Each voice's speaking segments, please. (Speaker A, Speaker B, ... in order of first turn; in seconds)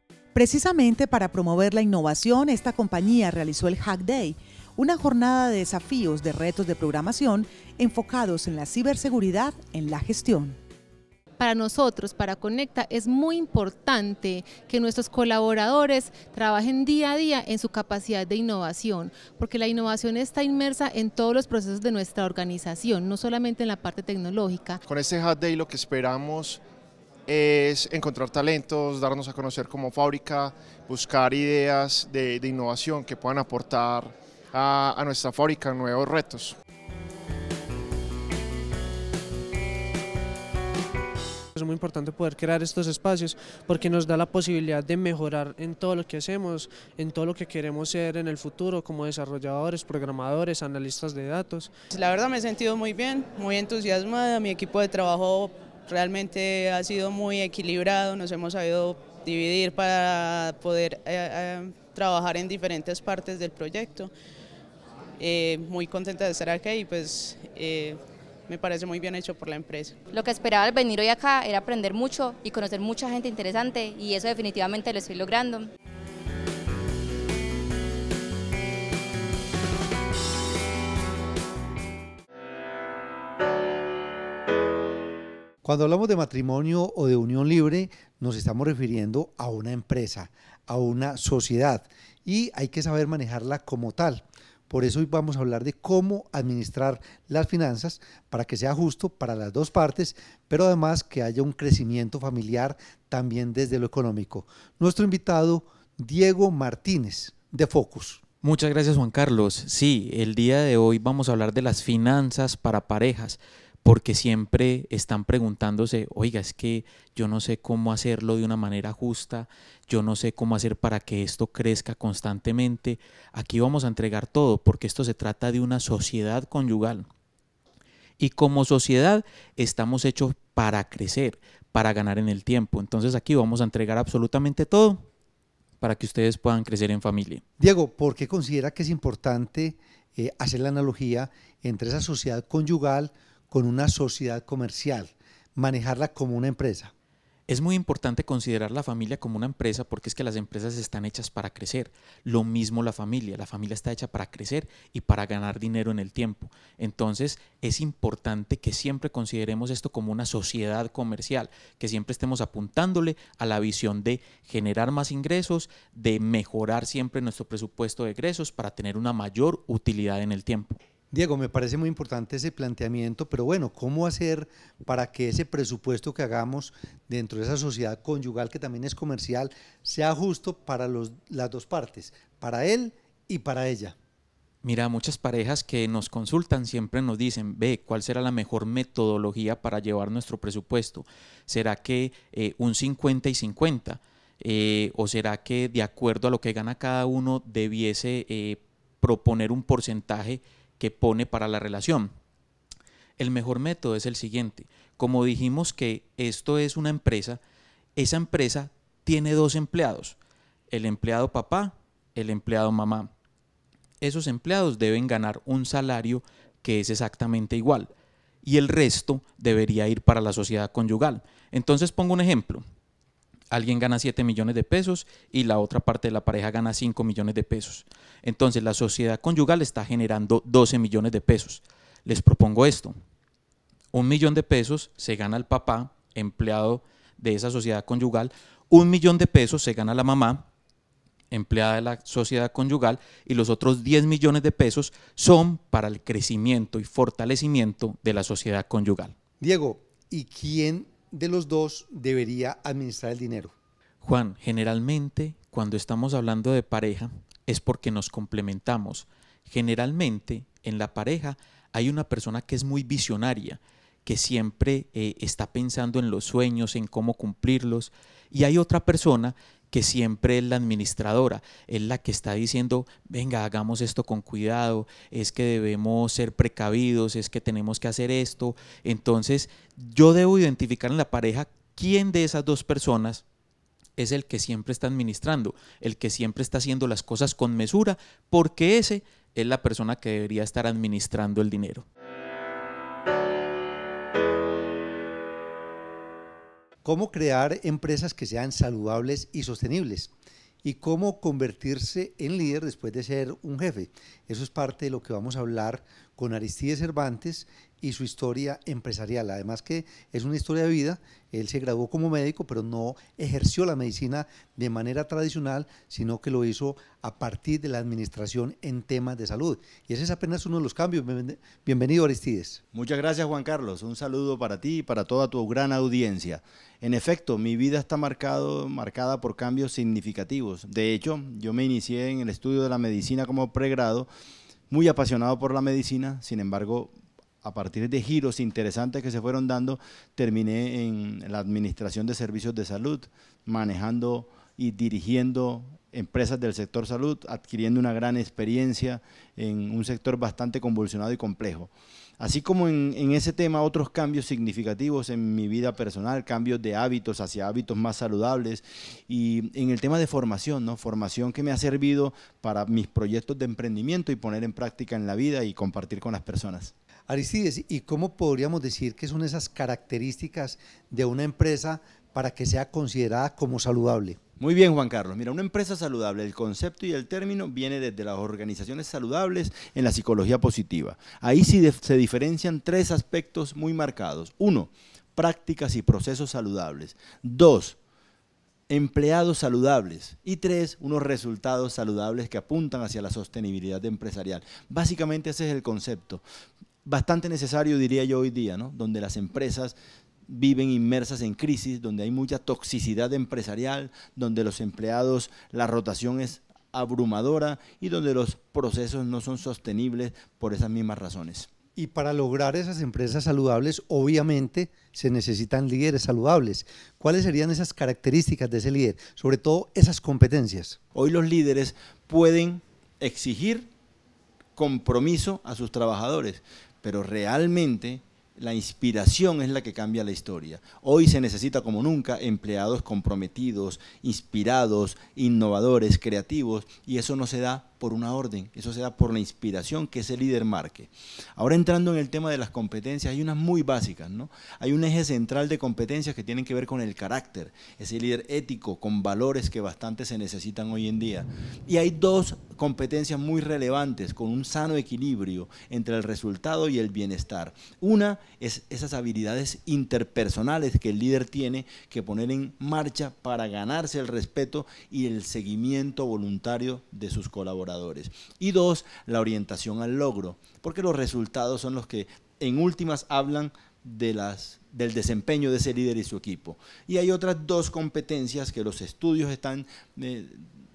Speaker A: 0.3-10.6
Speaker B: 11.4-24.8
Speaker C: 24.8-26.6, 27.3-36.5
Speaker D: 41.5-51.7
Speaker E: 51.9-64.1, 65.2-70.0
Speaker F: 70.1-75.7
Speaker G: 85.6-108.2, 137.6-146.9, 171.1-183.9, 249.4-253.5, 296.8-300.1, 300.6-322.6, 367.1-374.2, 411.7-420.8
Speaker H: 108.4-127.0, 128.2-135.0, 135.8-137.4, 147.5-170.8, 184.6-202.1, 203.2-207.4, 207.9-210.2, 210.7-213.1, 214.0-217.9, 218.4-222.6, 223.5-232.9, 233.9-240.4, 241.3-249.1, 254.0-283.2, 284.0-291.8
Speaker I: 322.7-334.1, 334.7-366.7, 374.4-387.8, 388.7-396.2, 396.8-399.8, 400.3-411.5, 420.9-423.7, 424.6-480.4